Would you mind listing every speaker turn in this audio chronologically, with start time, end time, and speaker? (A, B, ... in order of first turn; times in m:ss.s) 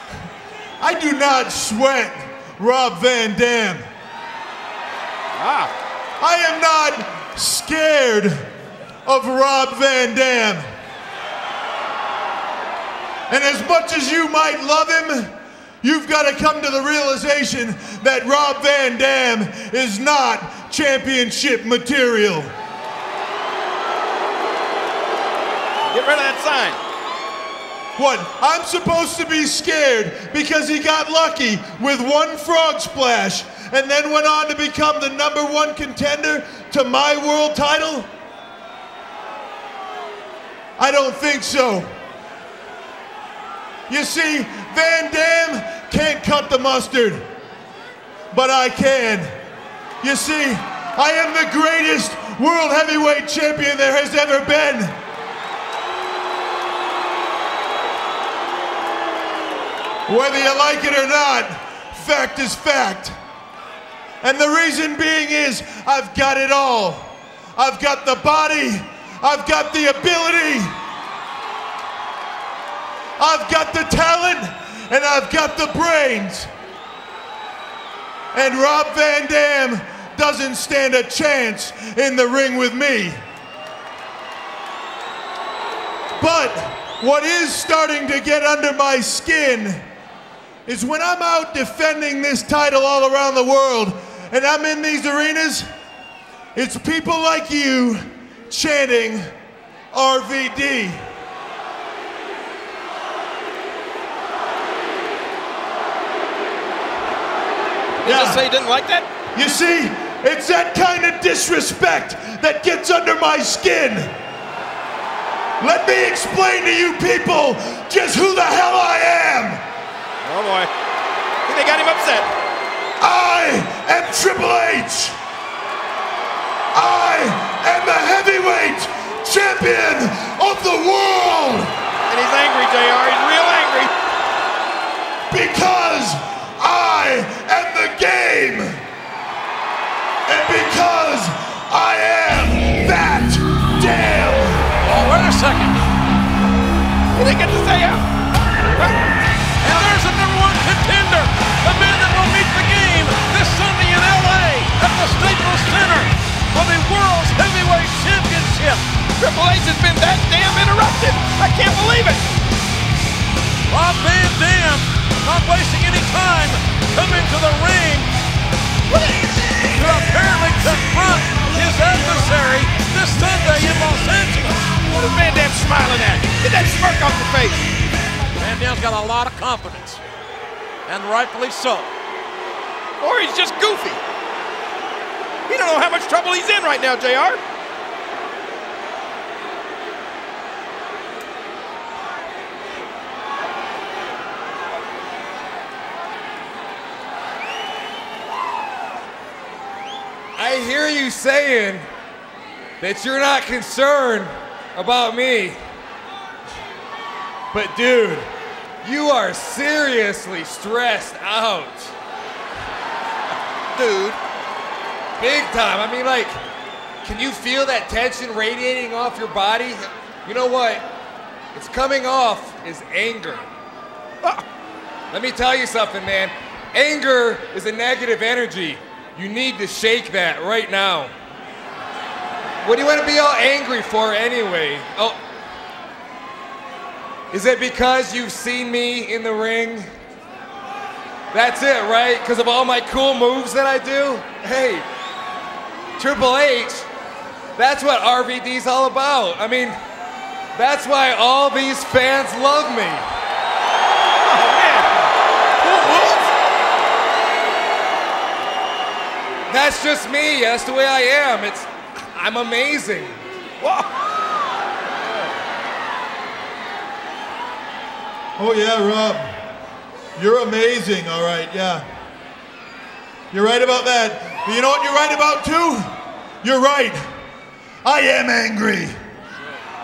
0:00.8-0:03.8 A
0:05.4-0:05.7 B
0:06.2-0:08.5 A
0:09.0-0:10.6 A
0:13.3-0:22.5 A
0:25.9-0:26.8 B
0:28.0-0:38.1 A
0:40.8-0:41.9 A
0:43.9-0:47.3 A
0:48.3-0:49.3 A
0:50.0-0:55.0 A
1:00.1-1:03.2 A
1:04.2-1:10.8 A
1:13.2-1:16.5 A
1:18.3-1:23.2 A
1:26.2-1:29.8 A
1:30.7-1:35.7 A
1:36.6-1:39.3 A
1:39.9-1:41.0 A
1:48.0-1:49.1 B
1:48.0-1:48.4 A
1:49.3-1:54.1 A
1:55.6-1:59.6 A
2:00.2-2:00.7 B
2:01.5-2:02.3 B
2:03.0-2:05.2 A
2:06.7-2:11.8 A
2:12.1-2:13.9 B
2:15.3-2:18.8 A
2:20.3-2:24.7 A
2:24.8-2:25.8 C
2:27.1-2:28.0 B
2:28.7-2:29.0 B
2:29.6-2:38.8 C
2:39.2-2:42.3 B
2:43.7-2:48.1 C
2:48.9-2:49.3 B
2:49.7-2:54.8 C
2:54.9-2:57.7 B
2:58.4-3:00.0 C
3:00.9-3:01.9 C
3:03.0-3:04.0 B
3:05.5-3:07.4 B
3:20.4-3:21.9 D
3:22.8-3:25.6 D
3:27.5-3:28.3 D
3:28.8-3:32.0 D
3:33.8-3:34.2 B
3:35.2-3:36.4 D
3:37.0-3:40.9 D
3:41.5-3:43.5 D
3:45.1-3:51.1 D
3:52.6-3:55.2 D
3:57.3-3:59.9 D
4:01.3-4:04.9 D
4:06.0-4:06.9 D
4:07.6-4:09.8 D
4:10.6-4:13.1 D
4:14.2-4:15.0 B
4:15.6-4:16.3 B
4:19.5-4:23.2 D
4:23.6-4:23.9 B
4:28.4-4:29.4 A
4:30.2-4:31.9 A
4:33.3-4:35.9 A
4:36.4-4:37.0 A
4:37.8-4:39.0 A